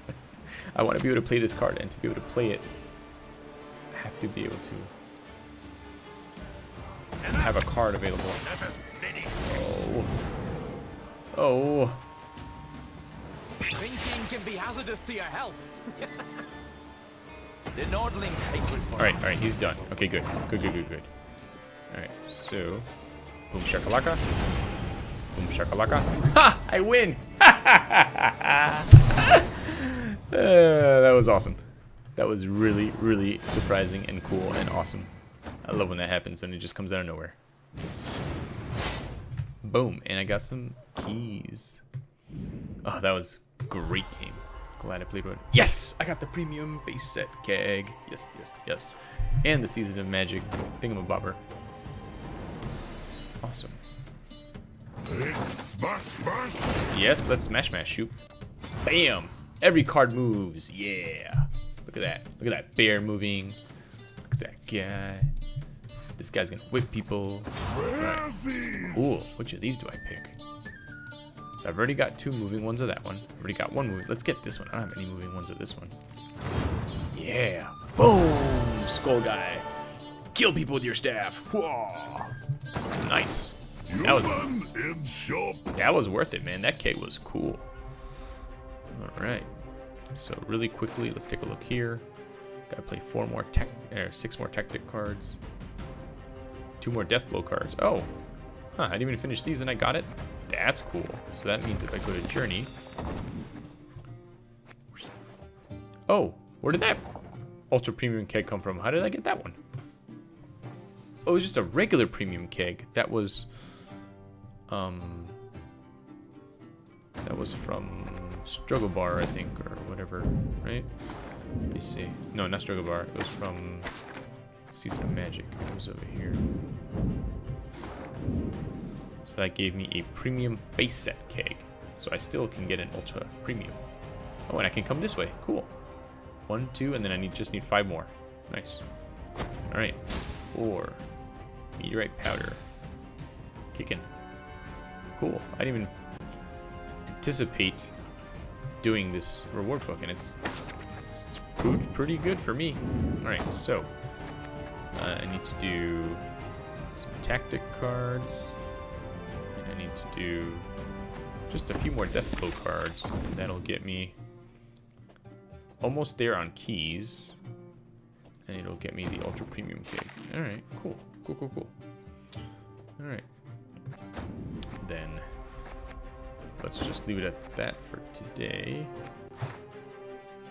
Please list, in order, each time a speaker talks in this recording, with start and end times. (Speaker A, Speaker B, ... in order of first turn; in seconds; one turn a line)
Speaker A: 0.7-2.7
Speaker A: 3.9-4.9
Speaker A: 7.3-8.4
Speaker B: 8.4-9.8
Speaker A: 9.5-10.1
Speaker A: 11.3-12.0
Speaker B: 13.6-16.3
Speaker B: 17.7-20.2
Speaker A: 19.0-21.1
Speaker A: 21.9-22.9
Speaker A: 23.5-24.3
Speaker A: 25.3-31.6
Speaker A: 32.2-35.1
Speaker A: 35.6-37.4
Speaker A: 39.6-41.8
Speaker A: 42.8-51.4
Speaker A: 53.4-53.8
Speaker C: 55.1-56.7
Speaker A: 56.9-58.2
Speaker A: 58.8-63.6
Speaker A: 64.3-65.3
Speaker A: 66.2-70.4
Speaker A: 71.6-76.0
Speaker A: 77.1-79.7
Speaker A: 80.3-82.3
Speaker A: 83.0-84.5
Speaker C: 83.9-85.6
Speaker A: 85.8-87.7
Speaker A: 88.9-89.5
Speaker A: 90.1-92.1
Speaker A: 92.7-95.4
Speaker A: 96.8-98.1
Speaker A: 98.8-102.7
Speaker A: 106.1-107.0
Speaker A: 107.7-109.6
Speaker A: 111.3-113.5
Speaker A: 114.7-115.4
Speaker A: 117.2-120.9
Speaker A: 121.7-123.9
Speaker A: 124.7-126.4
Speaker A: 129.2-133.8
Speaker A: 134.5-135.7
Speaker A: 136.5-138.8
Speaker A: 139.7-140.0
Speaker A: 140.5-141.0
Speaker A: 141.8-142.6
Speaker A: 143.7-144.1
Speaker A: 145.2-145.9
Speaker A: 147.1-147.9
Speaker A: 148.8-153.9
Speaker A: 154.9-156.2
Speaker A: 157.0-158.6
Speaker A: 159.5-160.7
Speaker A: 161.5-164.2
Speaker A: 165.8-167.4
Speaker A: 168.5-171.7
Speaker A: 173.0-173.3
Speaker A: 174.8-175.3
Speaker A: 176.6-178.9